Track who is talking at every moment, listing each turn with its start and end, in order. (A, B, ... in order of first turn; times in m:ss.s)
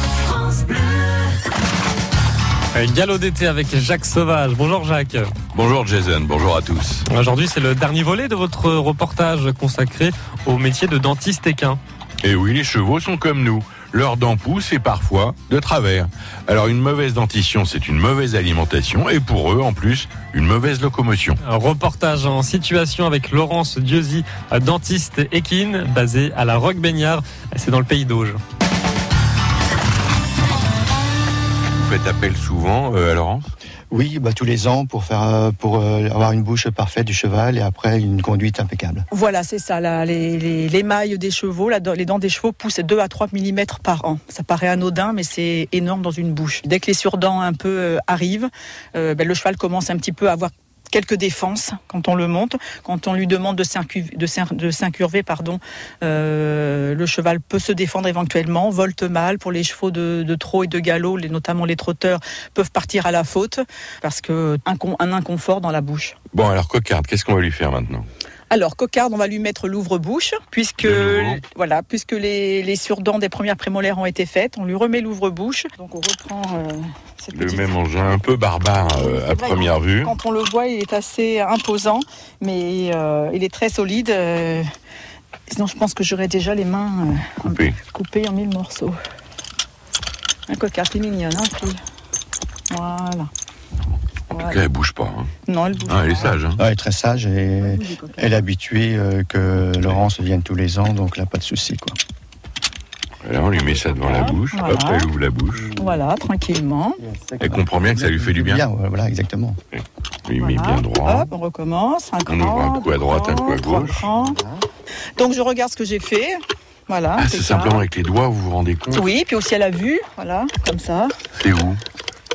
0:00.3-0:01.0 A
0:02.7-0:05.3 A
0:05.5-0:07.0 B
0:07.1-0:11.8 A
0:12.2-0:21.4 B
0:21.4-0:28.4 A
0:31.8-0:33.5 B
0:33.9-0:39.0 C
0:39.1-1:06.2 D
1:06.3-1:08.0 B
1:08.5-1:17.8 D
1:10.8-1:11.4 B
1:17.3-1:20.1 B
1:18.8-1:24.6 D
1:25.5-1:28.9 D
1:27.4-1:27.8 B
1:30.5-1:31.8 D
1:32.7-1:33.3 D
1:34.3-1:35.3 B
1:34.3-1:34.6 D
1:35.4-1:36.4 D
1:35.8-1:36.6 B
1:36.6-1:42.0 C
1:37.6-1:38.4 D
1:39.7-1:40.0 B
1:43.2-1:45.7 B
1:44.0-1:45.1 D
1:45.6-1:46.0 C
1:45.8-1:47.0 D
1:47.0-1:49.6 C
1:47.4-1:48.6 B
1:49.7-1:51.3 B
1:50.4-1:54.4 D
1:52.2-1:54.1 B
1:55.2-1:56.4 D
1:56.9-1:57.8 D
1:57.1-1:59.0 B
1:58.9-2:01.1 D
2:01.3-2:01.8 B